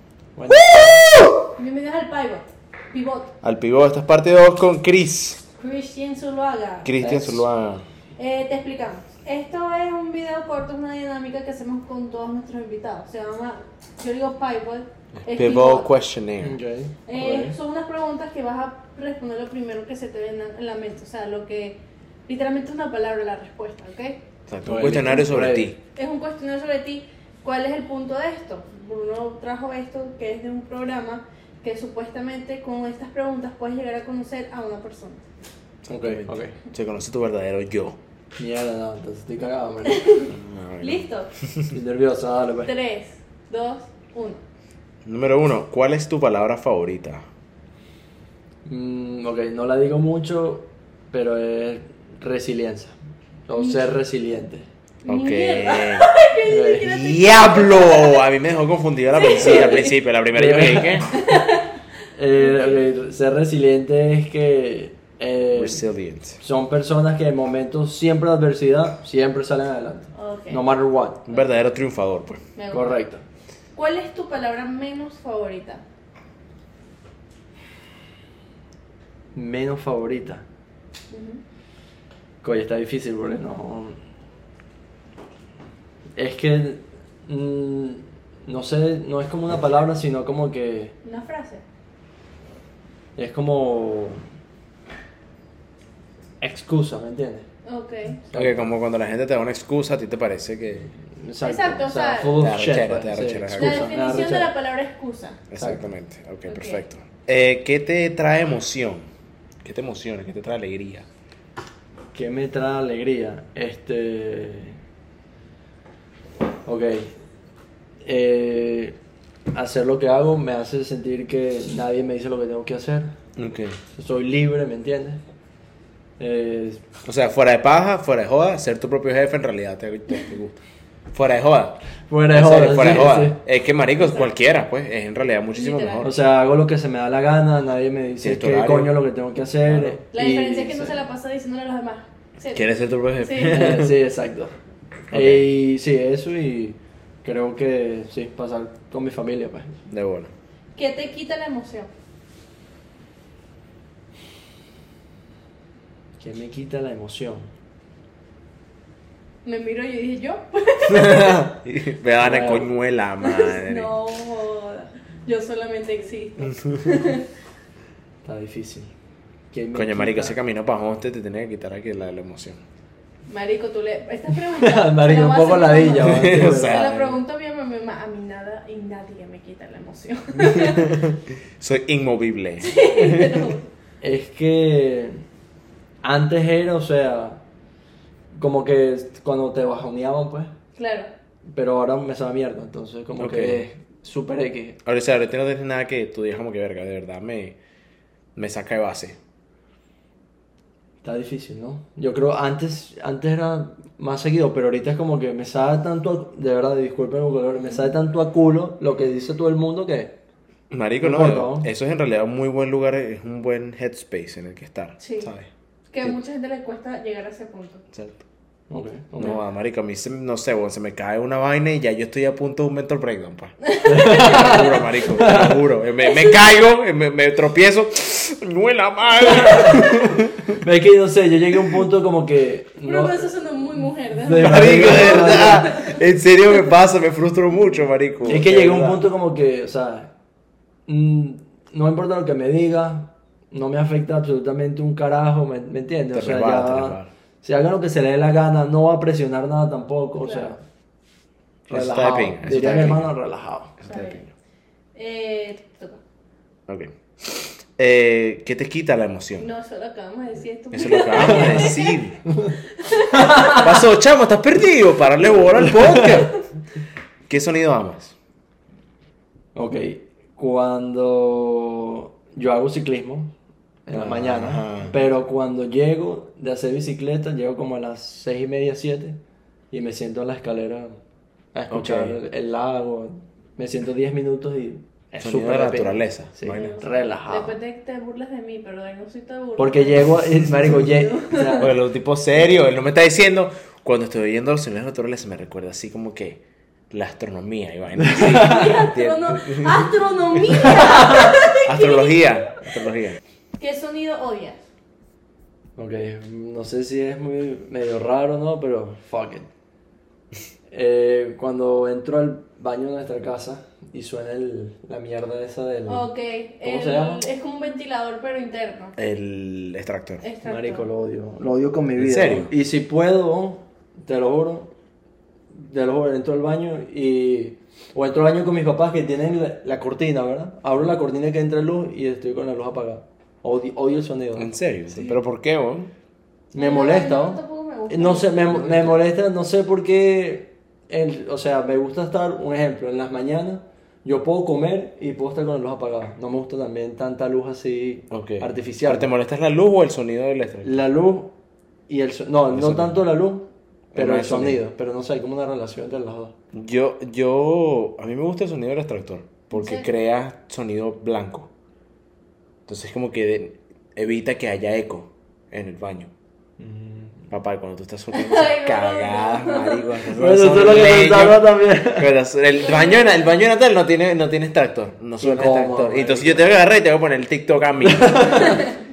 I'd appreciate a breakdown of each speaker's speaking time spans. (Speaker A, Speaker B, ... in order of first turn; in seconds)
Speaker A: 0.4-1.1, 7.0-7.5, 16.4-17.6, 24.6-25.7, 35.9-36.5, 38.4-40.0, 41.7-42.7, 48.6-53.0, 53.5-54.7, 56.5-56.9, 59.5-59.8, 60.3-61.2, 62.1-65.8, 66.4-71.2, 72.7-73.2, 79.3-80.5, 82.4-84.0, 86.2-91.0, 93.2-94.2, 96.4-97.5, 98.3-98.7, 101.2-104.5, 105.6-105.8, 112.1-114.8, 116.7-117.1, 118.0-119.0, 119.5-123.1, 123.9-125.2, 126.2-126.8, 132.1-133.4, 136.0-141.0, 143.5-144.6, 145.1-149.8, 156.2-157.5, 162.2-162.7, 168.2-168.9, 169.5-170.4, 174.4-177.2, 184.0-185.2, 186.0-187.4, 188.3-190.5, 191.5-194.8, 201.0-210.2, 211.0-211.7, 218.7-219.4, 223.9-225.6, 229.2-229.6, 230.5-233.3, 234.2-235.7, 238.2-240.1, 240.9-250.6, 251.7-253.8, 261.2-261.7, 269.6-273.3, 273.9-279.2, 279.7-281.0, 281.5-287.6, 289.6-291.7, 298.1-298.5, 300.9-301.2, 305.8-309.5, 310.7-316.1, 316.6-317.2, 320.4-324.7, 325.5-334.5, 336.5-349.1, 350.6-351.3, 351.9-356.4, 366.6-367.3, 370.1-372.1, 375.2-376.6, 377.9-378.6
Speaker B: 0.5-1.3, 3.4-5.4, 6.8-7.8, 15.2-16.6, 24.5-25.8, 36.0-38.0, 40.3-41.7, 45.0-47.2, 55.1-56.1, 56.8-61.1, 65.5-66.4, 71.3-72.4, 98.3-100.9, 102.3-104.0, 105.5-109.1, 109.6-111.1, 123.4-123.8, 127.0-130.6, 131.1-131.8, 132.3-136.2, 138.2-139.0, 139.7-140.0, 142.5-143.9, 145.1-145.5, 149.9-150.3, 160.9-163.9, 169.7-172.6, 176.0-176.9, 180.7-183.5, 193.2-193.7, 194.8-197.6, 198.4-199.2, 210.7-215.5, 217.9-218.2, 219.2-230.6, 234.4-239.0, 246.1-247.1, 251.7-253.1, 253.8-254.3, 256.7-259.5, 260.7-262.2, 263.4-266.4, 267.3-268.2, 273.9-275.0, 281.7-282.2, 285.2-286.8, 291.6-300.7, 301.6-303.2, 319.0-320.2, 322.0-322.5, 334.4-335.9, 348.1-350.9, 352.5-353.1, 353.9-354.6, 356.5-361.5, 362.7-366.1, 367.3-378.5
Speaker C: 1.6-3.3, 5.6-6.9, 8.2-15.9, 17.1-24.2, 26.0-35.2, 39.9-41.3, 42.6-44.4, 53.5-53.9, 55.1-58.2, 59.1-60.0, 61.1-61.7, 62.4-62.8, 70.1-70.6, 72.6-73.0, 73.8-75.8, 81.1-81.4, 91.0-91.6, 97.7-98.3, 101.4-102.4, 103.5-105.4, 106.5-106.8, 134.0-134.3, 135.5-136.1, 140.1-143.7, 150.8-151.9, 159.4-161.5, 163.2-167.3, 173.3-181.0, 182.6-183.7, 190.8-191.1, 207.6-207.9, 215.0-215.3, 215.9-217.8, 223.6-225.0, 226.0-226.3, 229.4-229.8, 232.9-236.0, 250.2-250.5, 252.4-253.0, 253.8-254.3, 254.9-256.0, 259.4-263.7, 286.5-291.7, 298.4-302.7, 303.6-304.6, 315.9-318.9, 320.2-320.9, 334.9-335.2, 336.6-338.9, 359.5-359.9, 368.1-369.9, 372.6-373.4, 378.4-378.7